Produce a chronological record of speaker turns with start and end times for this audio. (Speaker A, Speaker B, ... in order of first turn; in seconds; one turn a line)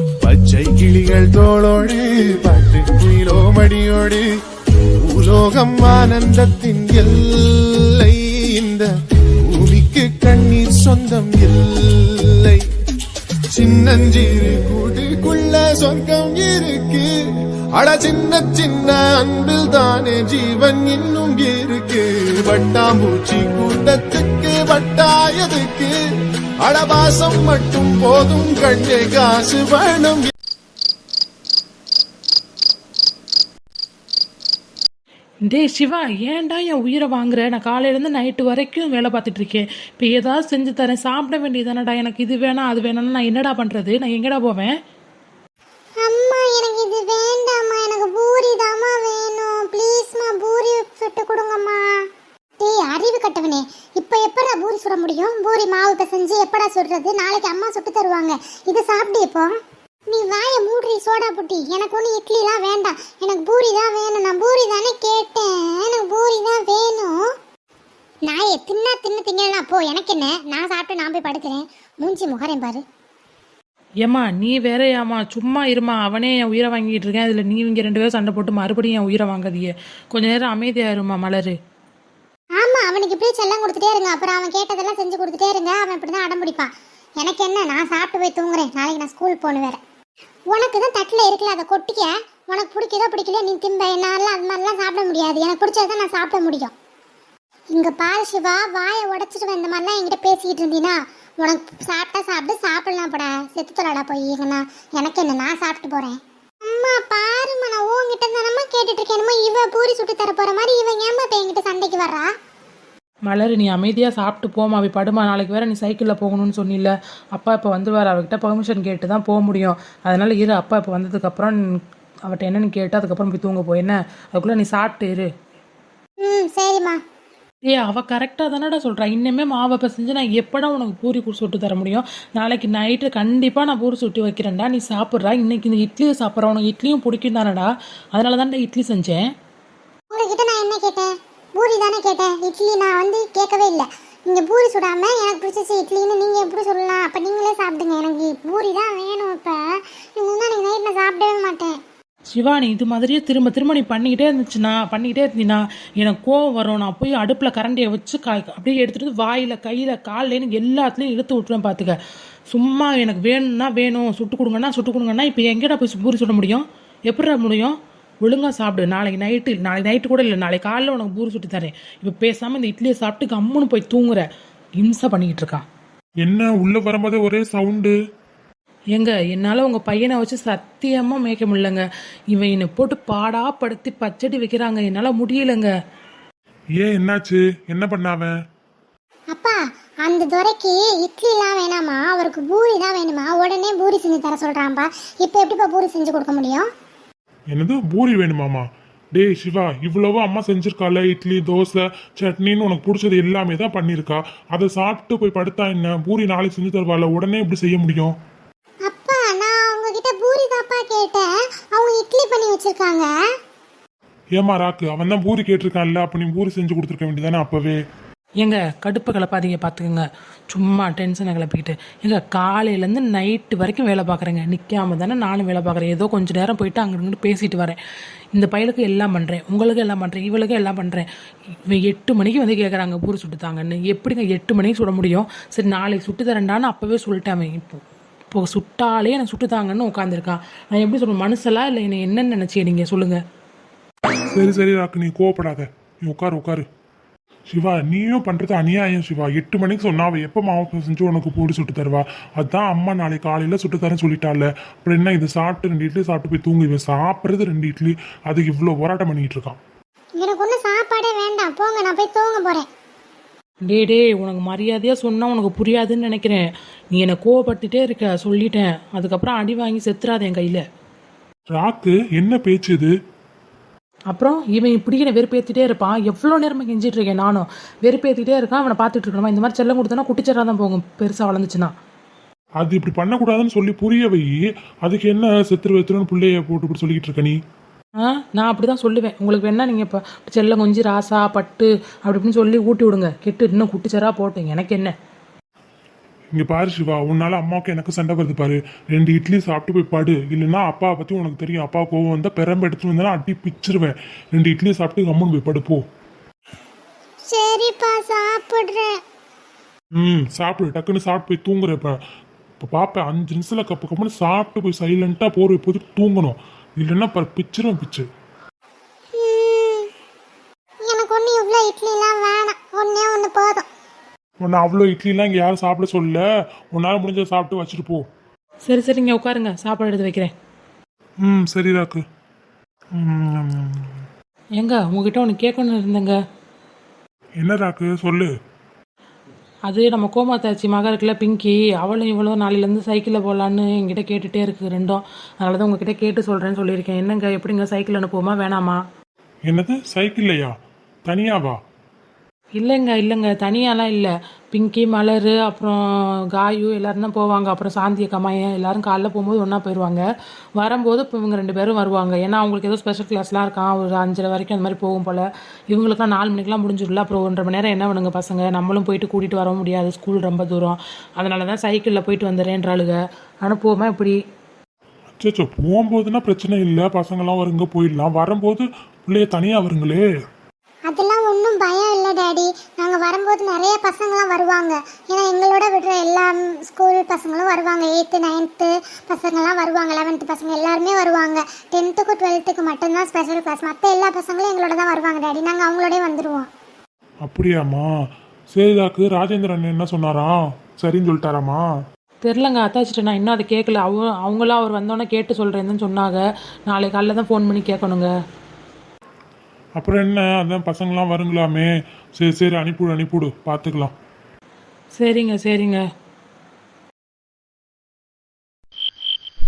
Speaker A: 0.2-4.2
Speaker A: 5.0-8.9
Speaker A: 9.4-12.6
Speaker A: 13.5-17.1
Speaker A: 17.8-25.9
Speaker A: 26.6-30.2
Speaker B: 35.4-44.8
Speaker C: 46.0-51.9
Speaker C: 52.6-59.5
Speaker C: 60.1-67.2
Speaker C: 68.3-72.8
Speaker B: 74.0-81.6
Speaker C: 82.6-89.8
Speaker C: 90.5-96.7
Speaker C: 97.7-112.3
Speaker B: 113.3-121.6
Speaker B: 122.3-125.3
Speaker C: 126.2-127.0
Speaker B: 127.7-139.3
Speaker C: 140.1-149.6
Speaker C: 150.2-151.8
Speaker B: 152.3-161.9
Speaker B: 162.5-174.3
Speaker B: 174.8-175.6
Speaker D: 176.2-177.9
Speaker B: 178.9-185.7
Speaker D: 186.8-188.3
Speaker C: 189.3-196.7
Speaker D: 197.5-208.1
Speaker C: 208.9-213.1
Speaker D: 214.3-217.8
Speaker B: 218.4-227.8
Speaker B: 228.3-231.1
Speaker B: 231.7-237.8
Speaker B: 238.3-243.2
Speaker D: 244.3-246.7
Speaker D: 247.5-259.6
Speaker C: 260.2-262.7
Speaker B: 263.7-270.6
Speaker D: 271.5-272.9
Speaker B: 274.1-281.7
Speaker D: 282.6-287.4
Speaker B: 288.0-294.9
Speaker D: 296.3-305.8
Speaker C: 307.3-309.0
Speaker D: 309.9-312.0
Speaker D: 312.6-318.1
Speaker C: 319.1-319.9
Speaker C: 320.9-323.6
Speaker D: 324.4-326.2
Speaker D: 326.7-328.1
Speaker B: 328.7-330.3
Speaker D: 331.2-332.0
Speaker D: 332.9-334.0
Speaker B: 334.6-336.2
Speaker D: 337.4-338.3
Speaker B: 339.7-348.8
Speaker D: 349.5-350.5
Speaker D: 351.1-351.6
Speaker B: 352.6-355.8
Speaker B: 356.3-360.0
Speaker B: 360.6-374.2
Speaker D: 375.2-380.0
Speaker C: 380.9-396.5
Speaker D: 397.2-397.9
Speaker D: 398.5-401.6
Speaker B: 402.2-408.1
Speaker D: 409.8-413.9
Speaker B: 415.0-415.8